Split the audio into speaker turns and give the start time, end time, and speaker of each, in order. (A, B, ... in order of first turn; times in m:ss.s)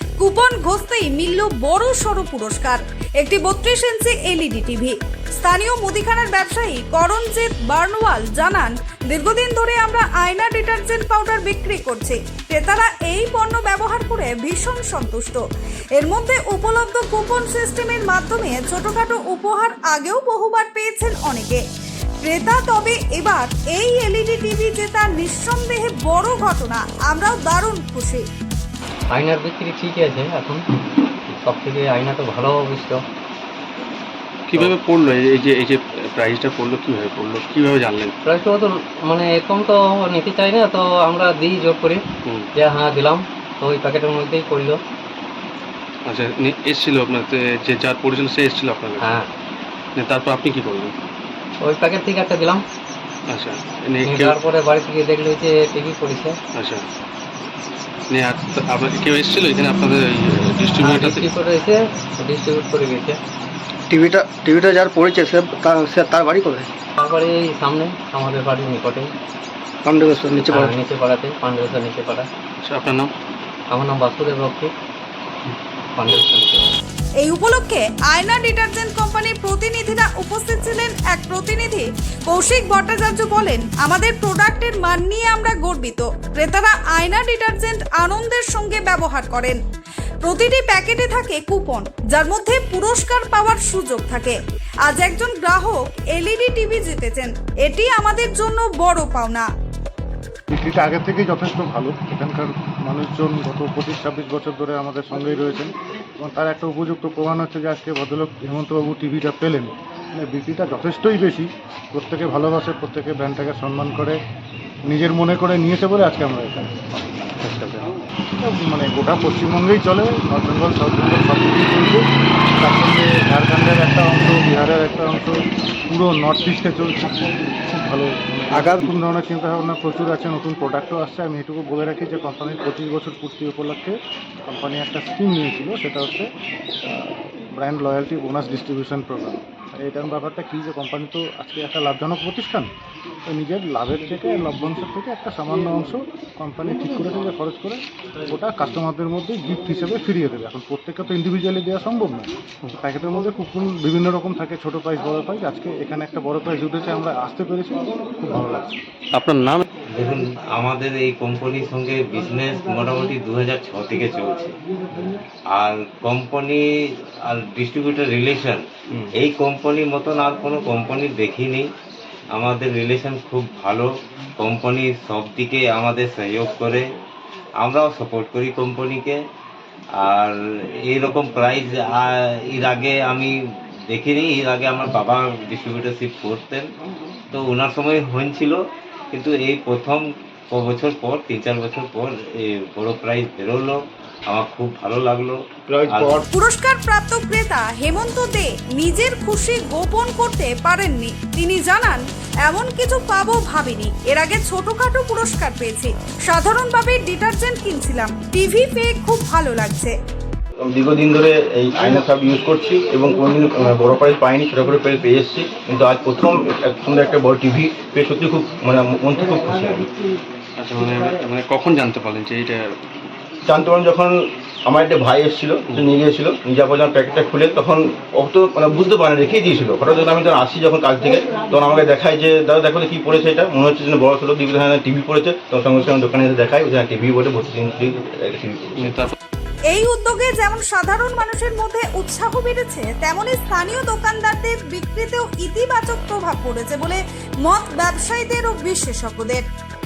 0:00.2-0:15.4 A
0:16.0-0:21.6 A
0:22.2-0:28.2 A
0:29.1-0:30.6 B
0:31.3-0:33.0 B
0:34.5-0:38.1 C
0:38.2-0:42.0 B
0:42.5-0:44.8 B
0:46.0-0:49.1 C
0:49.0-0:49.3 B
0:50.0-0:50.9 C
0:51.6-0:52.6 B
0:53.3-0:54.4 C
0:54.0-0:56.4 B
0:56.5-0:56.8 C
0:58.1-1:01.3 C
1:00.8-1:03.2 B
1:03.9-1:06.7 D
1:07.0-1:09.1 B
1:09.8-1:10.6 D
1:10.4-1:12.3 B
1:12.6-1:13.1 C
1:13.7-1:14.7 B
1:15.9-1:16.7 B
1:17.2-1:29.6 A
1:30.2-1:39.5 A
1:40.5-1:54.2 E
1:54.9-1:56.7 E
1:57.4-1:57.8 C
1:58.4-2:02.0 E
2:02.6-2:16.3 E
2:16.8-2:22.7 E
2:23.3-2:38.8 E
2:39.1-2:39.6 C
2:39.9-2:44.5 F
2:45.5-2:46.6 F
2:47.2-2:48.6 F
2:49.2-2:51.7 F
2:52.3-2:56.8 F
2:57.6-2:59.2 F
3:00.0-3:00.4 F
3:00.9-3:03.3 F
3:03.9-3:06.7 F
3:07.3-3:08.6 F
3:09.1-3:16.2 F
3:16.3-3:29.9 A
3:30.7-3:39.9 G
3:40.6-3:42.7 C
3:43.4-3:58.9 G
3:58.8-3:59.1 C
3:59.7-4:09.4 A